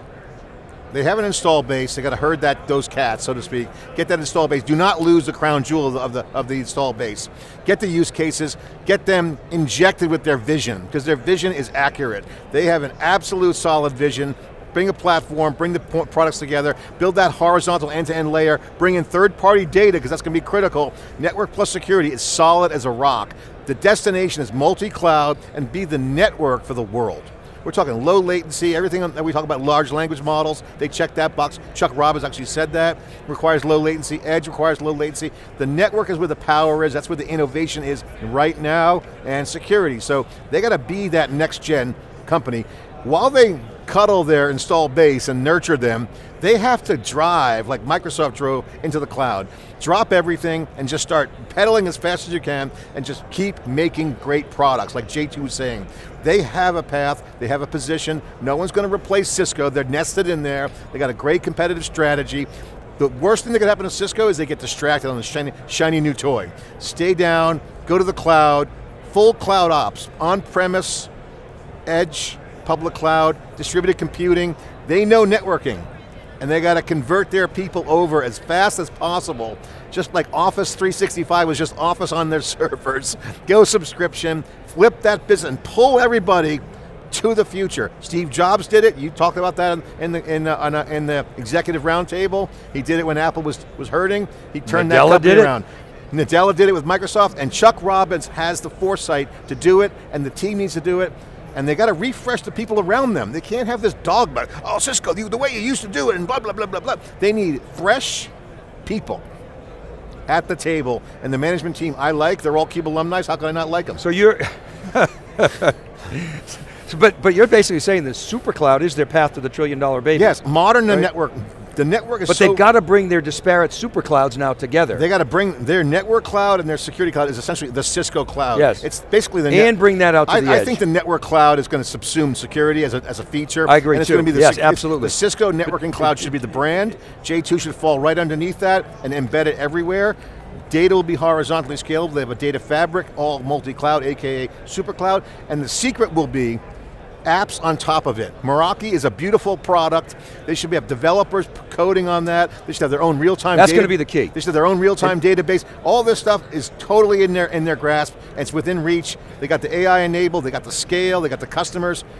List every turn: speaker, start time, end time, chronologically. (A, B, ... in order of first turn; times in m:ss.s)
0:00.9-1:02.5 A
1:03.0-1:11.1 A
1:11.9-1:15.8 A
1:16.4-1:48.3 A
1:34.7-1:35.5 B
1:48.8-1:49.2 A
1:50.3-1:54.0 A
1:54.0-2:01.1 B
2:00.2-2:02.6 A
2:02.3-2:05.0 B
2:04.9-2:20.2 A
2:08.6-2:08.9 B
2:09.5-2:10.8 B
2:13.7-2:15.2 B
2:20.7-2:26.6 A
2:27.2-2:42.0 A
2:33.6-2:34.3 B